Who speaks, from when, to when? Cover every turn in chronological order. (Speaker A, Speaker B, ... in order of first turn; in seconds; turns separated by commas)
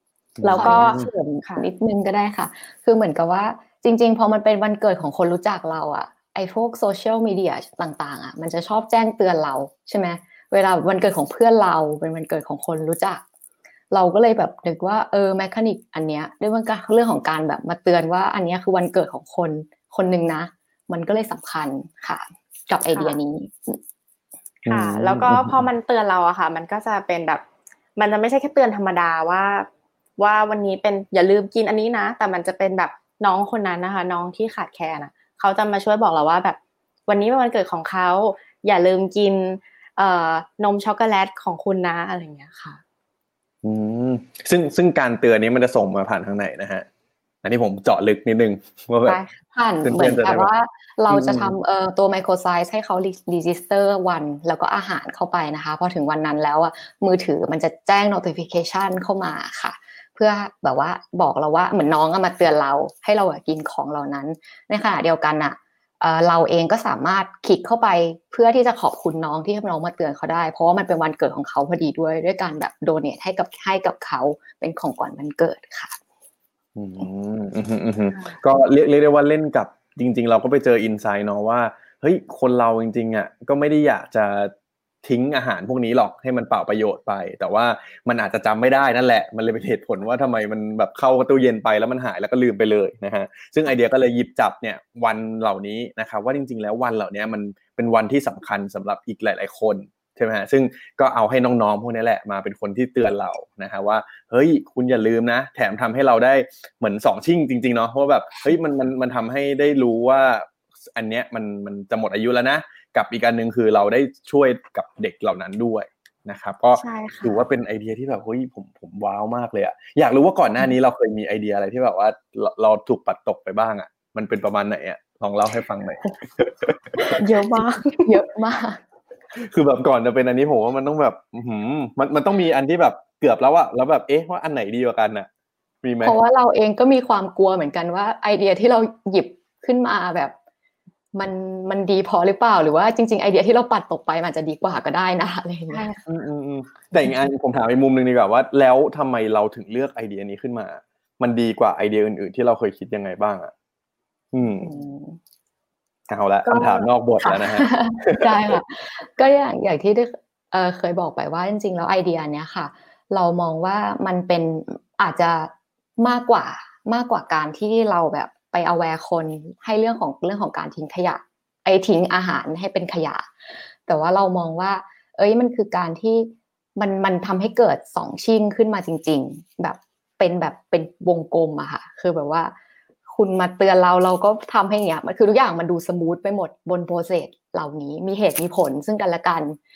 Speaker A: 0.4-1.1, Speaker B: 0.4-1.6, Speaker C: 0.5-13.2, Speaker C: 13.9-23.8, Speaker B: 22.9-23.2, Speaker A: 24.6-25.6, Speaker B: 24.7-27.4, Speaker B: 28.0-29.7, Speaker B: 30.2-42.8, Speaker A: 43.6-46.9, Speaker A: 47.4-49.2, Speaker C: 49.1-76.0, Speaker B: 49.1-49.4, Speaker A: 49.8-50.5, Speaker A: 51.1-51.5, Speaker A: 76.8-84.5, Speaker A: 85.0-126.8, Speaker B: 116.8-117.4, Speaker B: 127.0-128.2, Speaker C: 128.0-128.8, Speaker A: 129.3-135.3, Speaker A: 135.8-136.2, Speaker C: 136.0-140.3, Speaker C: 141.1-145.8, Speaker B: 145.7-146.0, Speaker A: 146.1-153.5, Speaker A: 154.3-154.7, Speaker C: 154.6-155.2, Speaker A: 156.1-158.6, Speaker C: 156.4-173.3, Speaker C: 173.9-182.5, Speaker C: 183.1-189.6